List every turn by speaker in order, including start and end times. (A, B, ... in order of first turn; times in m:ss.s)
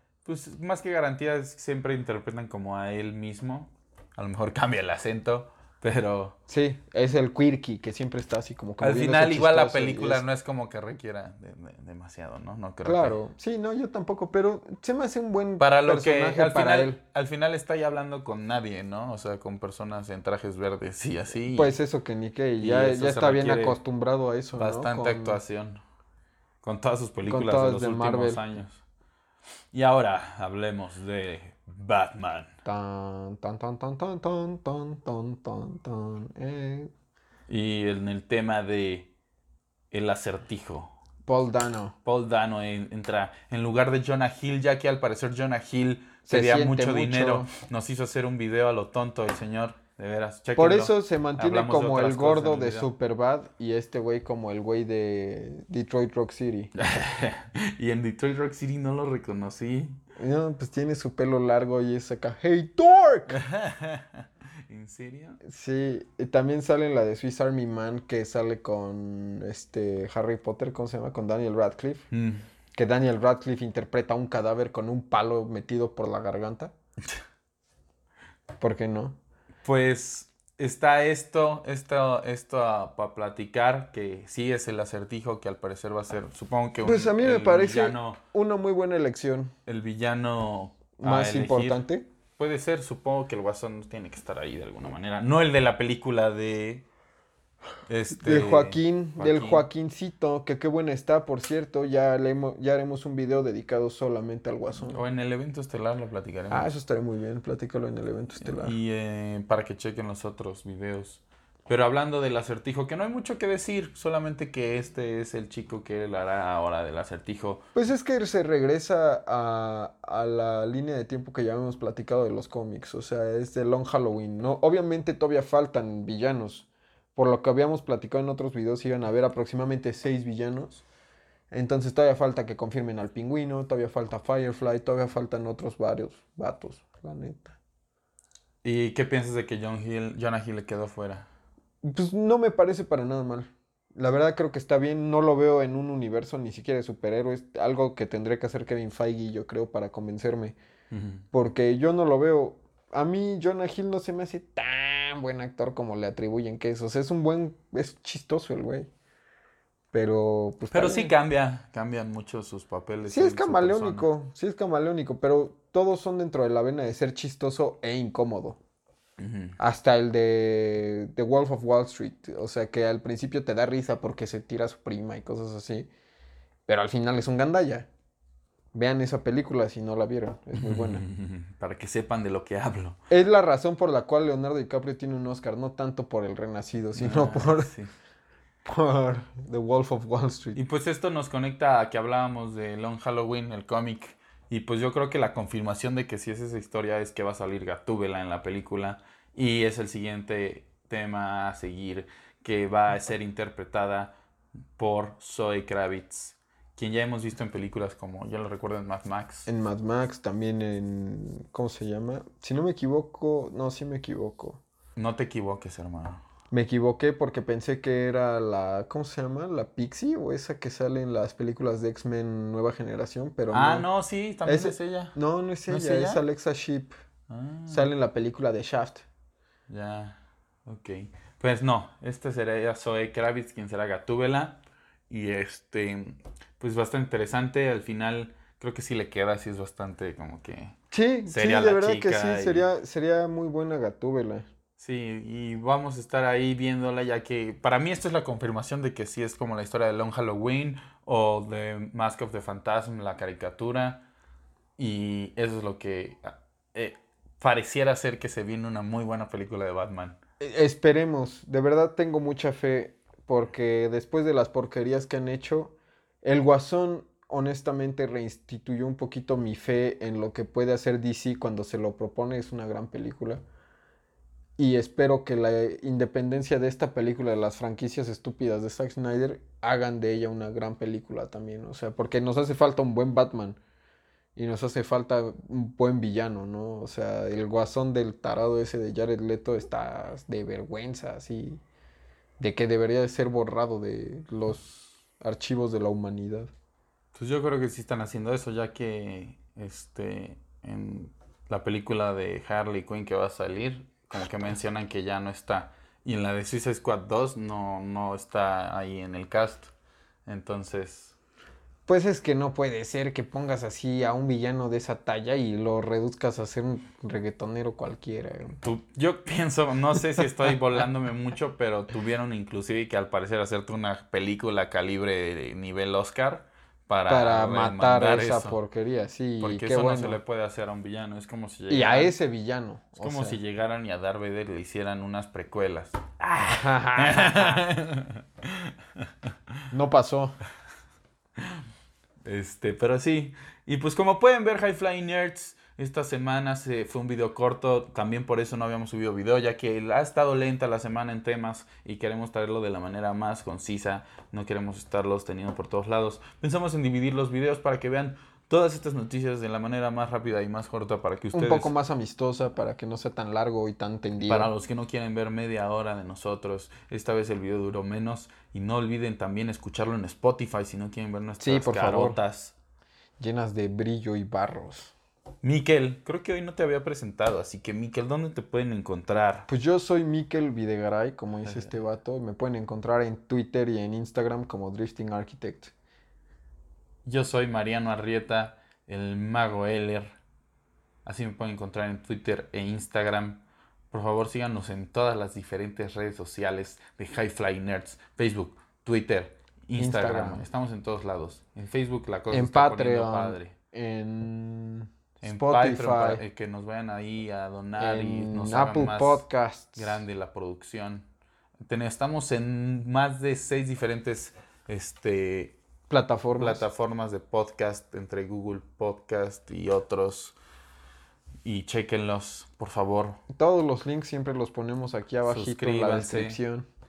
0:00.2-0:06.3 A
0:06.5-0:10.2 B
0:08.8-0:13.2 A
0:12.8-0:17.0 B
0:15.6-0:21.8 A
0:21.5-0:25.4 B
0:22.6-0:23.8 A
0:24.5-0:25.8 A
0:26.6-0:28.8 A
0:27.2-0:28.4 B
0:29.7-0:32.5 A
0:32.6-0:36.9 B
0:37.5-0:39.1 A
0:39.9-0:40.9 A
0:41.3-0:41.9 B
0:42.0-0:52.9 A
0:46.3-0:47.5 B
0:50.6-0:56.7 B
0:56.8-1:00.0 A
1:00.2-1:03.4 B
1:03.3-1:05.4 A
1:05.4-1:12.0 B
1:12.1-1:12.5 A
1:12.7-1:16.7 B
1:18.6-1:19.2 B
1:19.6-1:28.2 A
1:26.8-1:29.5 B
1:29.6-1:31.8 A
1:31.0-1:32.1 B
1:32.4-1:36.8 A
1:37.9-1:39.7 A
1:38.1-1:45.0 B
1:44.8-1:46.7 A
1:46.5-1:48.8 B
1:48.4-1:57.6 A
1:57.7-2:10.8 B
2:11.5-2:17.6 B
2:18.6-2:21.3 A
2:21.8-2:30.6 B
2:30.9-2:31.2 A
2:31.3-2:38.9 B
2:39.9-2:41.1 B
2:40.7-2:44.1 A
2:43.0-2:48.6 B
2:49.2-2:49.6 A
2:49.6-2:55.9 B
2:56.7-2:57.9 B
2:58.7-3:01.0 B
3:00.6-3:03.0 A
3:03.1-3:07.7 B
3:07.0-3:07.9 A
3:08.6-3:10.6 B
3:10.5-3:24.1 A
3:24.8-3:29.5 A
3:29.4-3:34.6 B
3:35.0-3:36.2 A
3:36.5-3:43.9 B
3:43.5-3:45.2 A
3:44.4-3:46.9 B
3:45.7-3:46.2 A
3:47.3-3:47.9 A
3:47.7-3:49.0 B
3:49.7-4:00.7 A
4:00.9-4:04.5 B
4:01.3-4:02.7 A
4:04.8-4:14.0 A
4:14.8-4:20.2 A
4:20.4-4:33.4 B
4:34.6-4:43.6 B
4:44.4-4:51.6 B
4:52.4-4:56.5 B
4:57.1-5:09.7 A
5:10.2-5:11.2 A
5:11.9-5:18.6 B
5:18.6-5:28.6 A
5:27.1-5:30.2 B
5:29.4-5:32.1 A
5:31.7-5:33.4 B
5:33.0-5:36.1 A
5:36.2-5:37.6 B
5:36.9-5:39.0 A
5:39.7-5:40.4 B
5:42.2-6:01.7 A
6:01.3-6:04.5 B
6:04.2-6:12.5 A
6:11.4-6:12.2 B
6:13.2-6:14.9 B
6:15.4-6:19.5 A
6:19.5-6:25.7 B
6:21.4-6:21.8 A
6:27.0-6:30.2 A
6:31.0-6:43.5 A
6:39.8-6:40.4 B
6:42.3-6:46.2 B
6:45.2-6:49.2 A
6:47.8-6:50.0 B
6:49.8-6:51.0 A
6:51.6-6:55.6 A
6:55.9-6:56.6 B
6:56.4-7:00.4 A
7:01.4-7:03.2 A
7:03.3-7:06.6 B
7:05.2-7:06.4 A